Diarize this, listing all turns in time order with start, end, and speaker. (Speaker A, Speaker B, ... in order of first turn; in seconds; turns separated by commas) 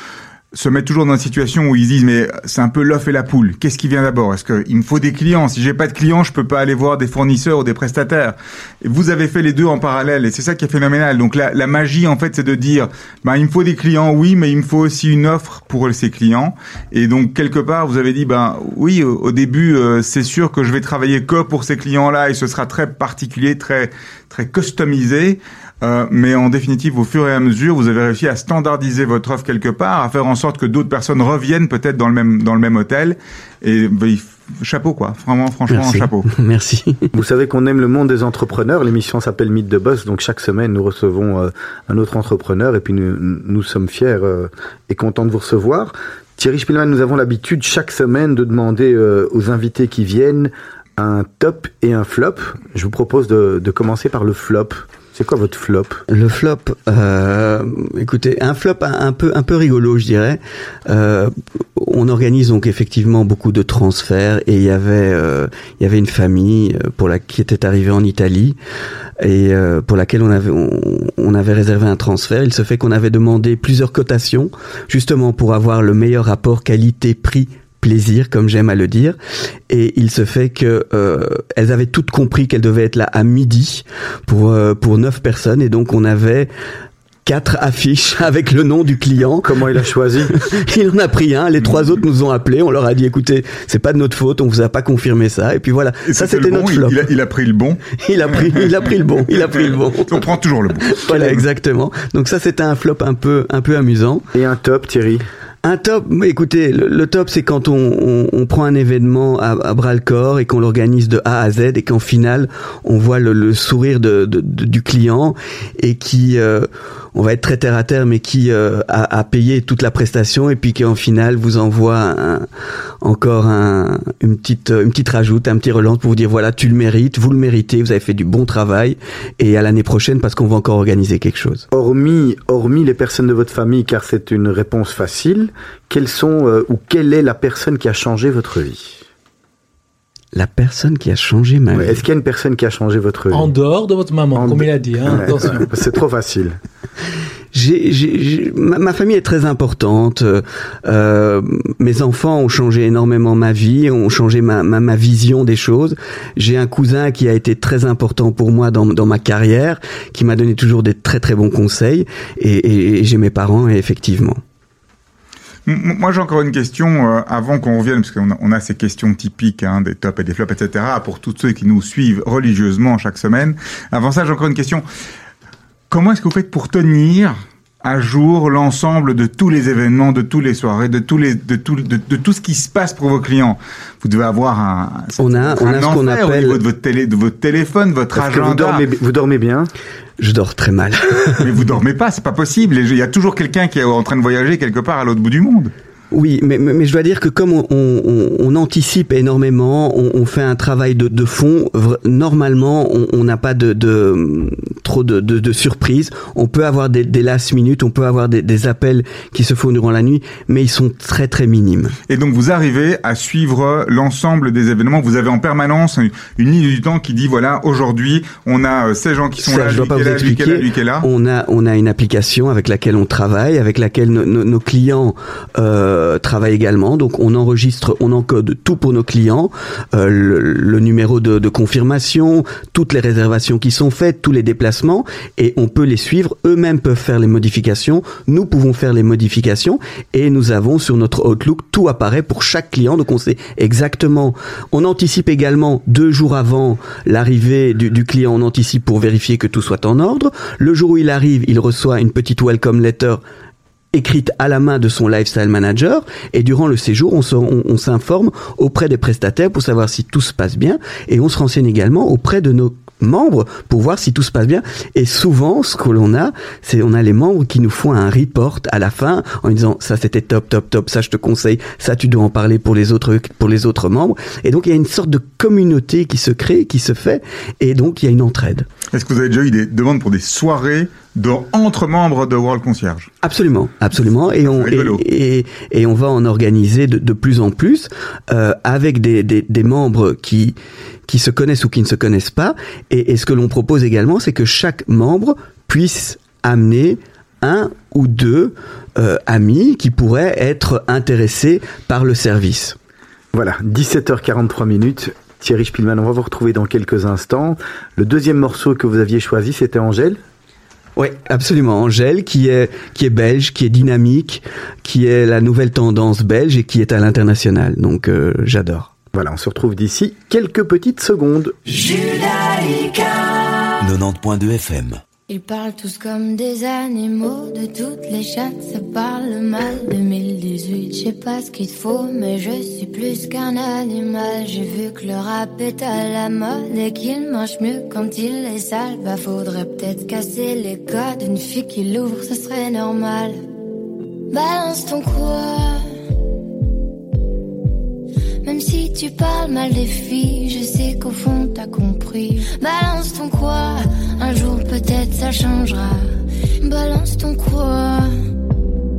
Speaker A: 0.5-36.3, Speaker B: 35.7-37.1, Speaker C: 37.1-56.0, Speaker B: 56.1-68.6, Speaker B: 69.2-79.2, Speaker B: 79.7-86.5, Speaker B: 87.2-89.7, Speaker C: 89.4-90.4, Speaker B: 90.3-97.0, Speaker A: 96.0-98.7, Speaker B: 97.9-100.2, Speaker A: 99.7-101.3, Speaker B: 100.9-104.3, Speaker C: 104.3-105.2, Speaker B: 105.6-122.5, Speaker B: 123.0-131.7, Speaker C: 131.7-139.0, Speaker B: 140.3-142.0, Speaker C: 141.7-143.5, Speaker D: 143.3-145.7, Speaker C: 144.3-146.6, Speaker B: 147.5-164.4, Speaker A: 165.7-174.8, Speaker A: 175.9-188.8, Speaker B: 185.2-186.6, Speaker C: 188.1-189.7, Speaker B: 190.2-191.6, Speaker A: 191.4-195.7, Speaker B: 196.1-211.9, Speaker A: 212.1-221.1, Speaker B: 219.4-253.2, Speaker B: 253.9-278.7, Speaker A: 278.9-283.1, Speaker B: 283.2-290.6, Speaker A: 284.5-285.0, Speaker B: 291.1-302.8, Speaker C: 303.3-310.2, Speaker B: 310.9-318.9, Speaker C: 319.1-321.6, Speaker E: 321.7-325.0, Speaker F: 325.3-343.4, Speaker F: 344.3-345.8, Speaker F: 348.4-356.1, Speaker F: 356.6-358.1